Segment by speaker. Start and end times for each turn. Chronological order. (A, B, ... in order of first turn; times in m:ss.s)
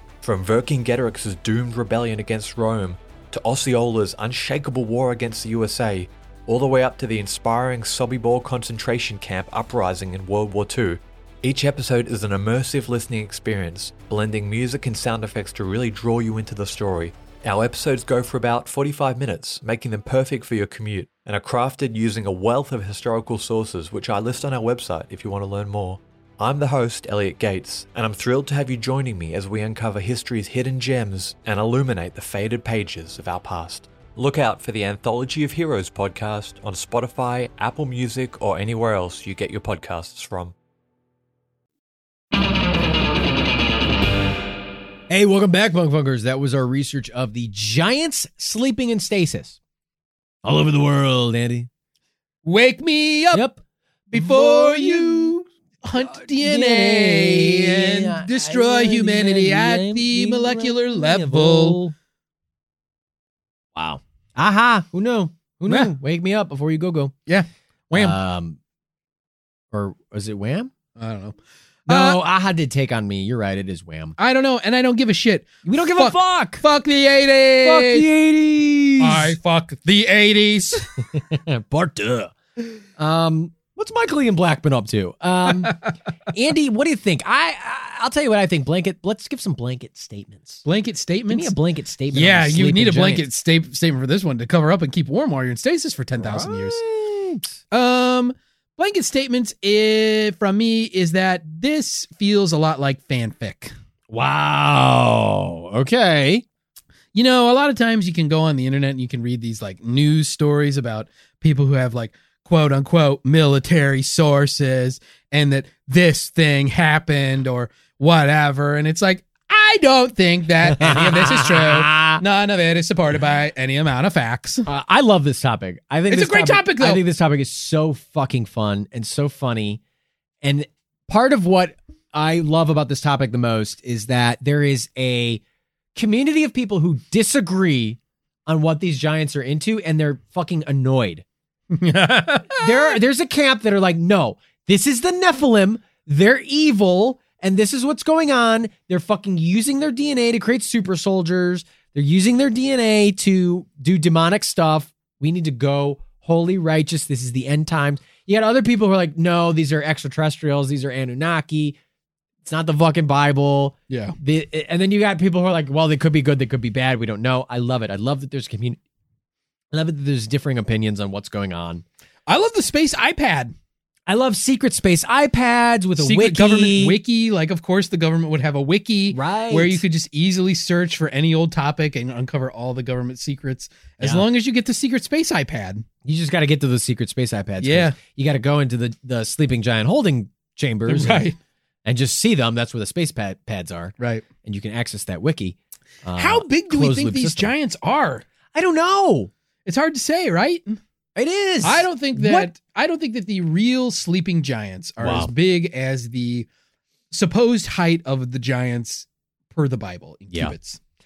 0:00.2-0:40.6 A
0:45.1-0:49.6 B
0:50.4-0:51.7 B
0:52.4-0:53.4 C
0:53.3-0:53.6 B
0:54.1-1:01.8 C
0:54.1-0:55.4 B
0:56.0-1:02.0 B
1:03.7-1:07.1 B
1:05.7-1:05.9 C
1:07.3-1:08.2 C
1:07.9-1:08.6 B
1:09.7-1:10.7 B
1:11.0-1:12.2 C
1:11.9-1:14.2 B
1:14.2-1:18.1 C
1:15.6-1:16.6 B
1:17.6-1:19.4 B
1:19.0-1:21.0 C
1:21.1-1:22.3 B
1:23.0-1:30.6 B
1:25.5-1:25.9 C
1:30.6-1:31.6 C
1:31.3-1:33.2 B
1:32.1-1:36.8 C
1:36.2-1:37.6 B
1:37.7-1:43.7 C
1:44.1-1:46.4 B
1:47.1-2:04.7 C
2:00.7-2:02.2 B
2:04.7-2:09.8 B
2:06.1-2:07.0 C
2:10.4-2:15.4 B
2:16.0-2:21.2 B
2:21.7-2:23.0 C
2:22.6-2:41.8 B
2:42.4-2:48.8 B
2:43.9-2:44.2 C
2:49.7-2:51.8 B
2:52.3-2:53.6 C
2:54.1-2:57.0 B
2:56.0-3:05.9 C
2:59.1-2:59.8 B
3:06.0-3:11.3 B
3:07.6-3:08.0 C
3:10.9-3:11.4 C
3:11.8-3:17.5 B
3:14.0-3:14.3 C
3:16.1-3:18.2 C
3:18.5-3:19.3 B
3:19.6-3:20.8 C
3:21.2-3:22.5 B
3:21.6-3:26.5 C
3:25.0-3:25.3 B
3:27.1-3:30.8 C